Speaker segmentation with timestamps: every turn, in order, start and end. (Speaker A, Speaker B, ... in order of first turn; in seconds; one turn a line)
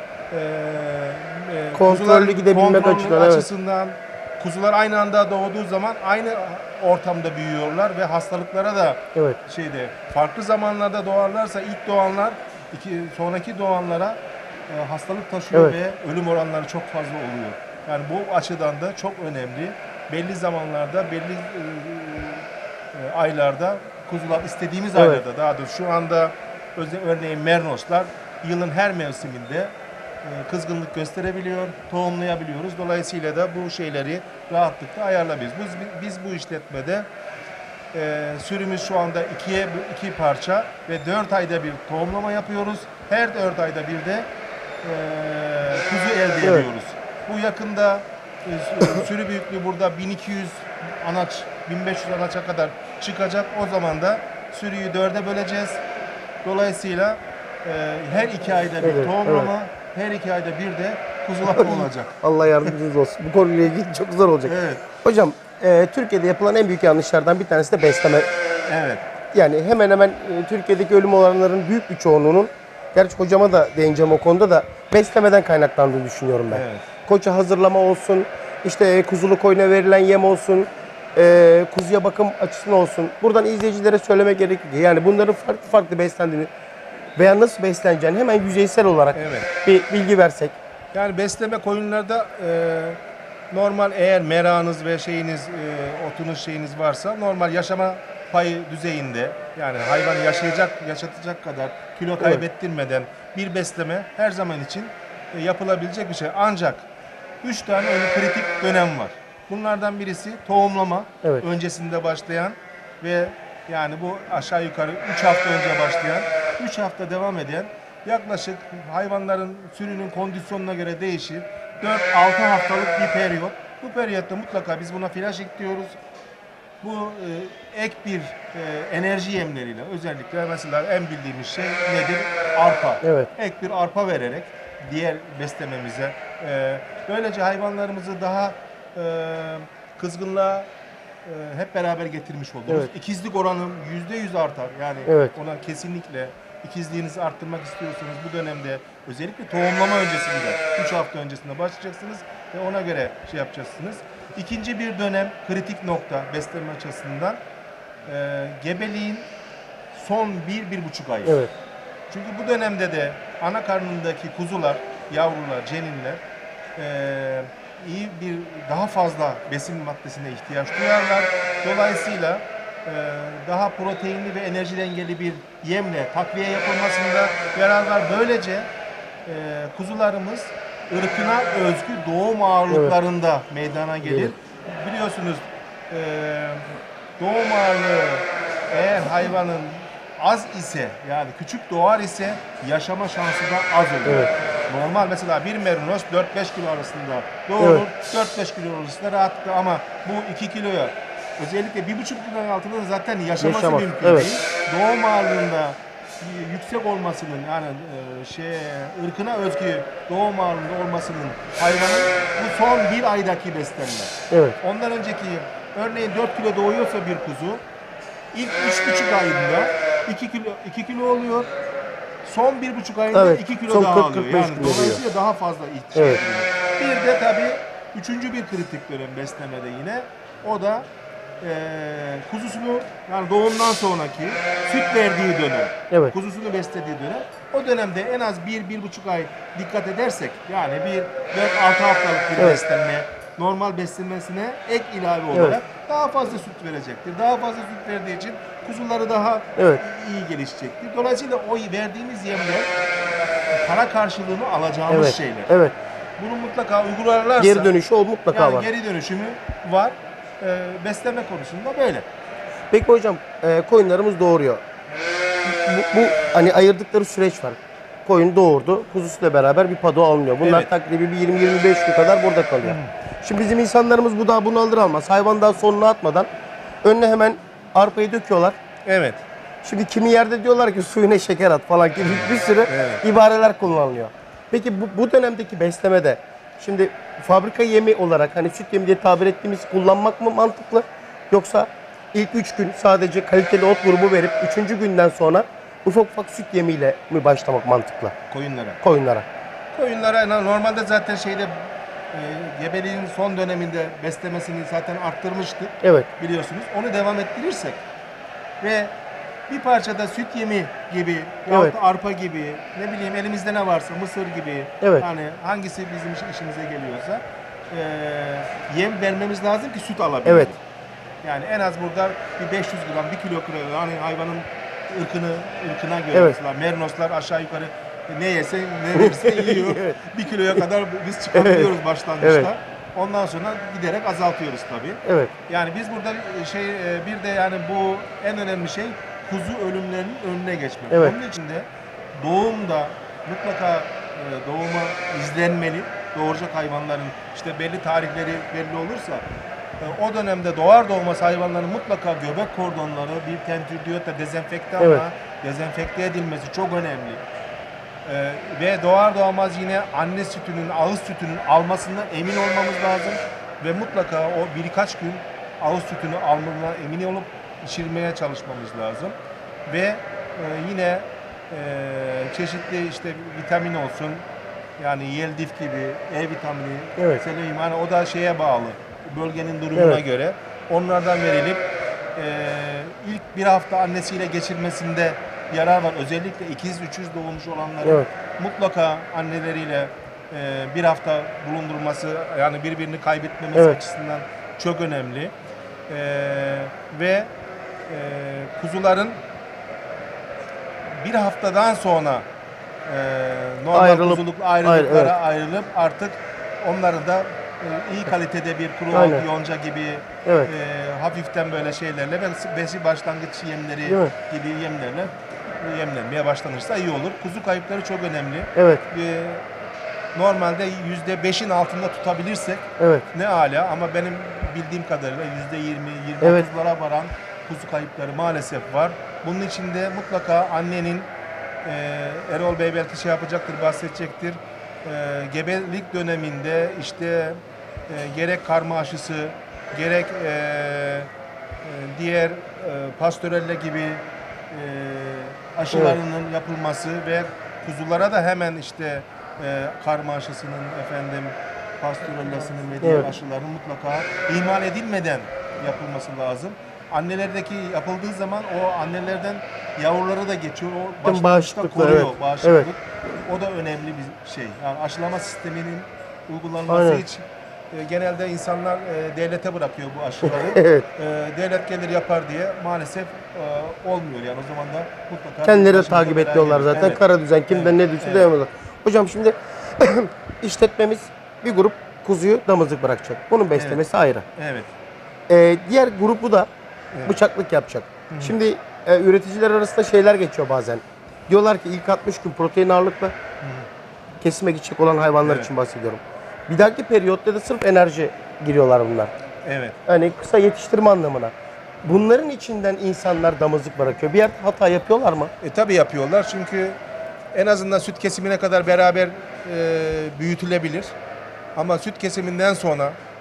Speaker A: 0.3-14.2
Speaker B: 1.7-3.5
Speaker A: 14.7-29.7
Speaker B: 24.9-25.2
Speaker A: 30.2-37.1
Speaker A: 37.9-44.3
Speaker A: 44.8-55.8
Speaker A: 56.4-62.7
Speaker B: 58.8-59.5
Speaker B: 61.4-68.3
Speaker A: 64.4-64.8
Speaker A: 68.7-69.0
Speaker B: 69.3-86.5
Speaker A: 76.5-76.8
Speaker B: 87.2-90.5
Speaker A: 89.1-89.5
Speaker A: 90.9-93.0
Speaker A: 93.5-106.9
Speaker A: 107.4-126.0
Speaker A: 126.8-140.7
Speaker B: 133.0-133.3
Speaker A: 141.2-157.4
Speaker B: 145.1-145.3
Speaker A: 158.0-159.3
Speaker A: 159.9-161.4
Speaker B: 161.2-161.5
Speaker A: 162.1-166.2
Speaker A: 166.8-178.7
Speaker A: 179.2-186.7
Speaker B: 182.7-182.9
Speaker B: 184.1-184.3
Speaker A: 187.2-217.6
Speaker B: 194.1-194.3
Speaker B: 197.6-197.8
Speaker B: 203.4-204.3
Speaker B: 214.3-214.6
Speaker A: 218.3-221.5
Speaker A: 222.2-230.9
Speaker B: 223.1-225.0
Speaker B: 225.9-226.2
Speaker A: 231.4-252.7
Speaker B: 245.3-245.6
Speaker B: 249.6-249.8
Speaker A: 253.5-255.5
Speaker B: 254.9-255.7
Speaker A: 256.2-257.7
Speaker B: 257.4-258.7
Speaker A: 258.3-262.1
Speaker B: 262.7-264.6
Speaker B: 265.4-276.3
Speaker A: 270.4-270.7
Speaker A: 272.6-272.9
Speaker B: 276.8-278.6
Speaker A: 278.8-279.2
Speaker B: 279.6-298.1
Speaker A: 282.1-283.0
Speaker A: 298.3-298.8
Speaker B: 298.8-299.2
Speaker A: 299.7-301.5
Speaker A: 302.1-307.8
Speaker B: 305.8-306.1
Speaker A: 308.6-308.9
Speaker A: 309.5-320.6
Speaker B: 311.5-311.7
Speaker B: 314.8-315.1
Speaker B: 320.2-320.5
Speaker A: 321.2-349.2
Speaker B: 328.9-330.0
Speaker B: 331.3-332.5
Speaker B: 335.1-335.3
Speaker A: 349.8-357.2
Speaker B: 354.8-355.0
Speaker A: 358.0-374.2
Speaker A: 374.8-395.3
Speaker B: 379.7-380.0
Speaker B: 387.8-388.1
Speaker A: 395.9-397.3
Speaker A: 397.9-399.2
Speaker A: 400.9-402.2
Speaker A: 402.9-419.4
Speaker B: 403.7-405.1
Speaker B: 408.9-409.2
Speaker B: 410.2-410.5
Speaker B: 413.9-414.1
Speaker B: 418.5-418.8
Speaker A: 420.1-431.1
Speaker B: 422.8-423.1
Speaker B: 426.2-426.5
Speaker A: 431.6-441.1
Speaker A: 441.6-478.3
Speaker B: 445.7-446.0
Speaker B: 452.8-453.1
Speaker B: 461.0-462.7
Speaker B: 466.7-467.0
Speaker B: 470.2-470.9
Speaker B: 475.4-484.2
Speaker A: 483.5-483.8
Speaker A: 484.4-484.7
Speaker B: 485.3-486.5
Speaker A: 486.9-487.2
Speaker B: 487.0-493.1
Speaker A: 488.1-488.3
Speaker A: 493.4-493.7
Speaker B: 494.2-499.1
Speaker A: 495.2-495.5
Speaker A: 499.4-499.8
Speaker B: 499.9-505.3
Speaker A: 505.4-506.8
Speaker A: 507.3-510.9
Speaker A: 511.5-513.0